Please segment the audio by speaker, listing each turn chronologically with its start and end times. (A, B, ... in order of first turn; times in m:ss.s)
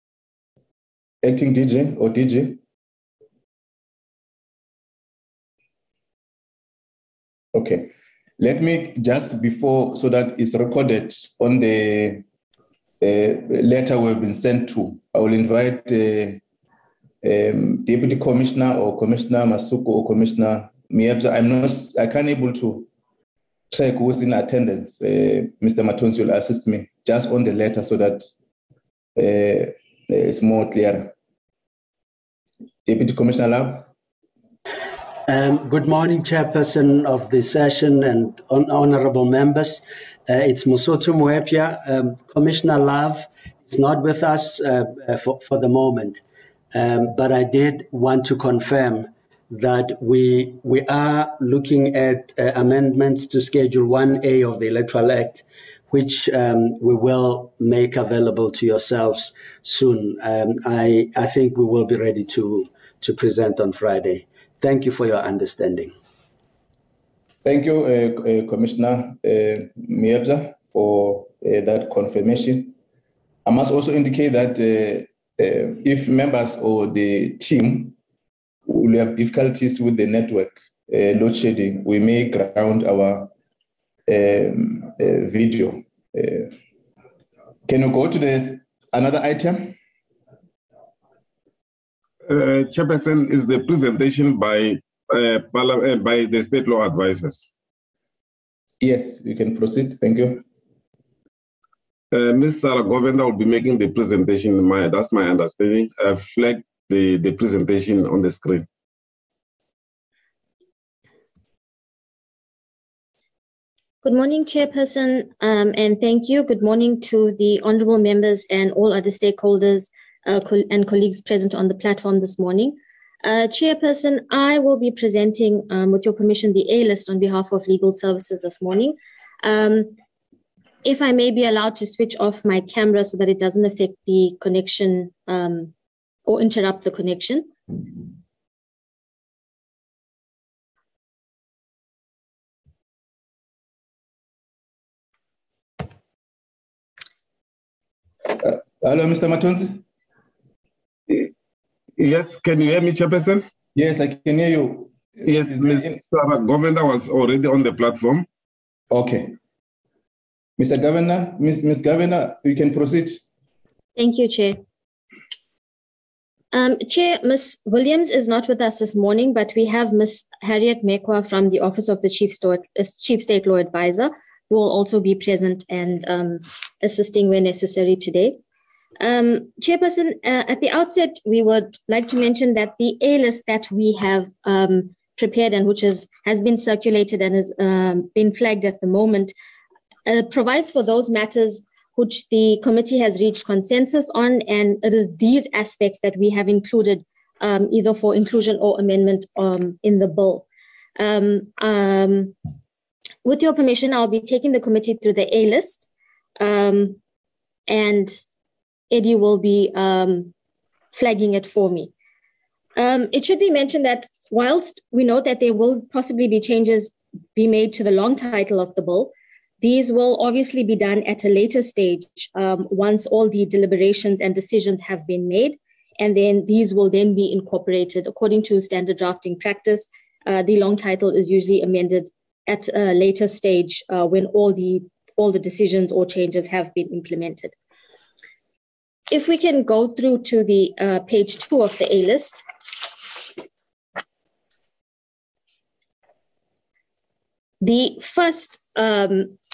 0:01.2-0:02.6 A
0:07.5-0:12.2 A
0:13.0-0:16.4 A
0:17.2-0:22.9 A
0:23.7-0:28.3 A
0:29.2-0:31.1 A
0:32.9-0:33.9 A
0:35.3-0:46.2 B
0:46.7-1:05.9 B
1:07.4-1:12.7 A
1:13.5-1:17.9 A
1:18.7-1:23.3 A
1:24.1-1:26.5 A
1:27.7-1:29.8 A
1:32.2-1:37.4 C
1:38.8-1:40.4 A
1:42.1-1:48.7 C
1:54.0-2:10.0 D
2:10.8-2:15.7 D
2:16.3-2:17.8 D
2:28.4-2:29.8 A
2:32.0-2:33.4 C
2:33.8-2:35.9 A
2:35.2-2:38.3 C
2:38.9-2:39.4 A
2:40.6-2:43.2 A
2:44.0-2:44.6 D
2:46.5-2:58.4 D
2:59.0-3:09.3 D
3:10.1-3:20.5 D
3:21.0-3:22.4 D
3:23.2-3:25.9 D
3:26.4-3:27.0 D
3:27.7-3:28.2 D
3:28.9-3:30.3 D
3:30.9-3:31.9 D
3:32.8-3:57.5 D
3:59.1-4:02.4 D
4:07.6-4:09.4 D